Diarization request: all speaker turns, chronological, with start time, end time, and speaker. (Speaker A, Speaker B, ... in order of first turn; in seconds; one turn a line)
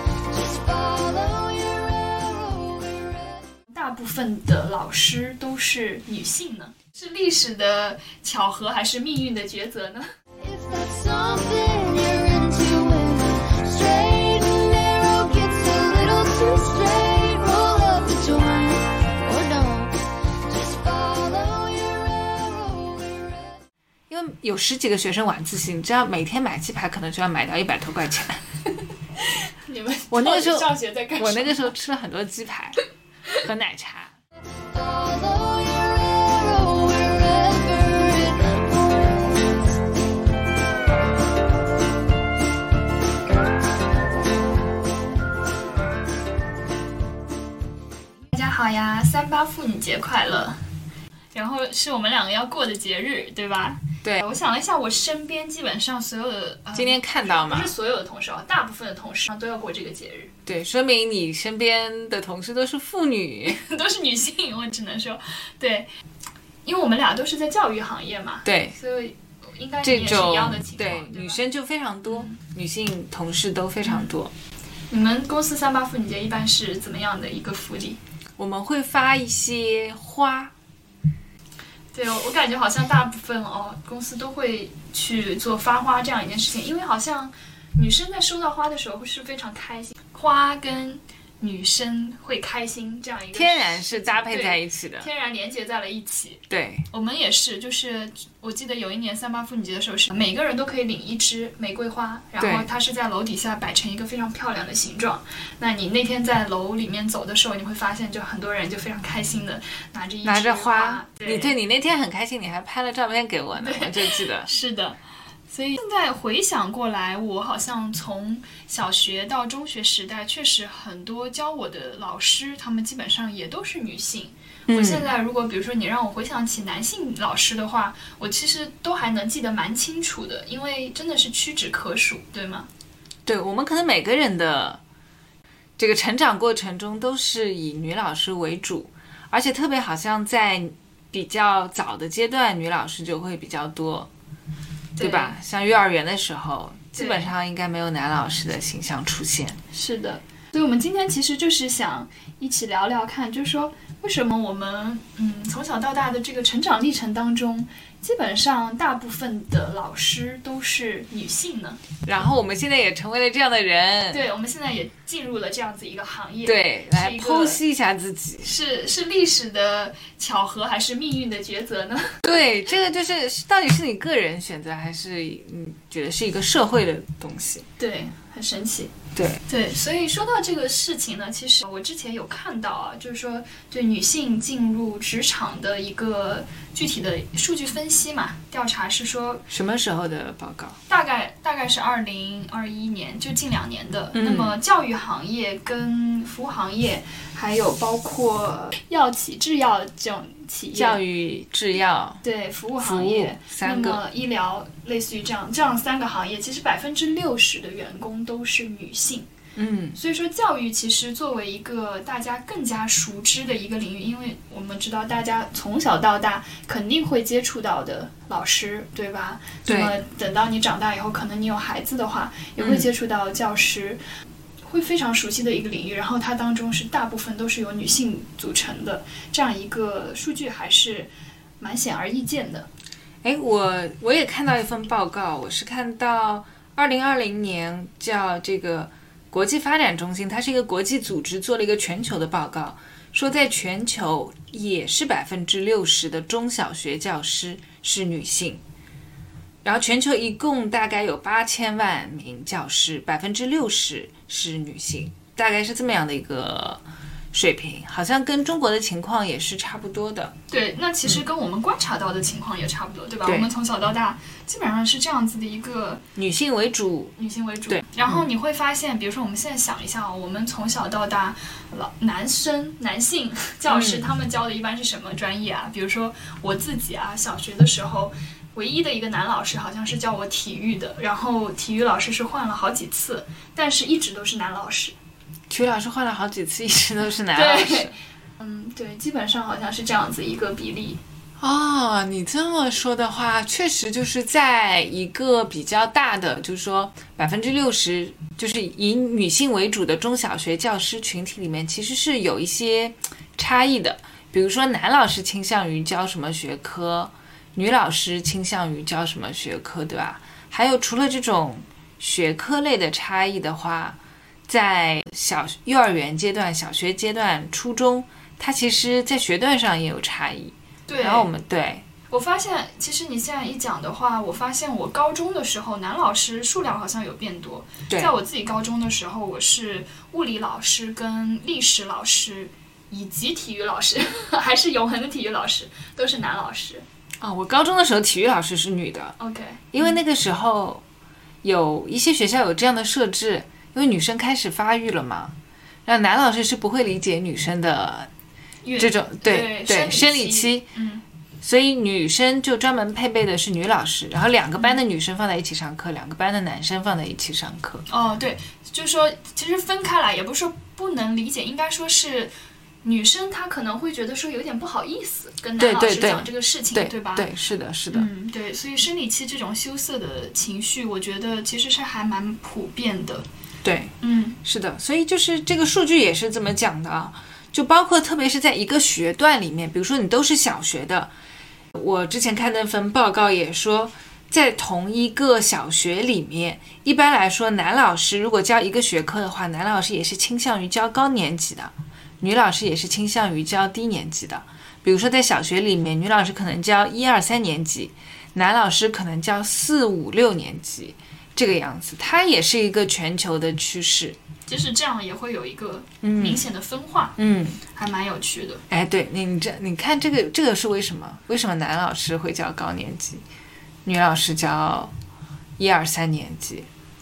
Speaker A: 0.3-3.5
Speaker B: 3.7-10.1
Speaker A: 10.4-23.6
Speaker C: 24.1-28.4
Speaker B: 29.6-31.7
Speaker C: 30.1-32.8
Speaker C: 33.4-34.1
Speaker A: 34.7-39.4
Speaker B: 48.3-50.6
Speaker B: 51.3-60.3
Speaker C: 56.7-57.7
Speaker C: 60.5-63.6
Speaker B: 63.5-65.9
Speaker B: 66.6-71.4
Speaker C: 68.4-68.7
Speaker C: 69.8-74.3
Speaker B: 72.0-72.4
Speaker B: 73.8-74.1
Speaker B: 74.9-78.0
Speaker C: 78.4-80.5
Speaker B: 81.9-111.5
Speaker C: 93.3-95.1
Speaker C: 96.5-96.9
Speaker C: 102.4-102.7
Speaker C: 110.2-114.5
Speaker B: 113.5-115.0
Speaker B: 115.5-132.7
Speaker C: 124.7-125.1
Speaker C: 133.2-134.8
Speaker C: 135.8-144.1
Speaker B: 144.9-145.3
Speaker C: 145.0-149.6
Speaker B: 146.9-147.3
Speaker B: 149.7-161.8
Speaker C: 162.0-164.2
Speaker B: 164.1-167.6
Speaker C: 166.4-168.5
Speaker B: 168.4-172.2
Speaker C: 172.2-177.7
Speaker B: 177.8-178.9
Speaker C: 179.2-179.4
Speaker B: 179.4-189.4
Speaker C: 189.5-190.8
Speaker B: 190.9-201.0
Speaker C: 194.1-194.6
Speaker C: 200.7-202.2
Speaker B: 202.2-209.3
Speaker C: 202.8-204.0
Speaker C: 209.6-210.0
Speaker B: 209.9-224.0
Speaker C: 219.7-219.9
Speaker C: 222.6-222.9
Speaker B: 224.6-232.7
Speaker C: 233.2-248.6
Speaker C: 249.6-256.8
Speaker C: 257.3-260.3
Speaker B: 260.5-266.0
Speaker C: 263.2-263.5
Speaker C: 266.1-267.1
Speaker B: 267.2-284.9
Speaker C: 267.7-268.2
Speaker C: 273.7-274.0
Speaker C: 285.5-287.9
Speaker B: 287.3-291.0
Speaker C: 291.4-321.8
Speaker B: 320.9-321.3
Speaker B: 322.1-336.8
Speaker C: 337.2-339.2
Speaker B: 339.2-340.0
Speaker C: 339.7-340.8
Speaker C: 341.4-345.3
Speaker C: 345.9-348.1
Speaker B: 348.6-351.0
Speaker C: 348.8-350.7
Speaker C: 351.4-357.8
Speaker B: 357.9-362.3
Speaker B: 362.8-367.3
Speaker C: 365.6-368.1
Speaker B: 367.9-373.2
Speaker C: 373.6-381.1
Speaker B: 374.0-374.4
Speaker C: 381.7-404.2
Speaker B: 404.5-407.2
Speaker C: 406.0-406.4
Speaker C: 407.2-407.6
Speaker B: 407.7-408.6
Speaker C: 408.7-413.2
Speaker C: 413.8-414.9
Speaker C: 415.6-416.7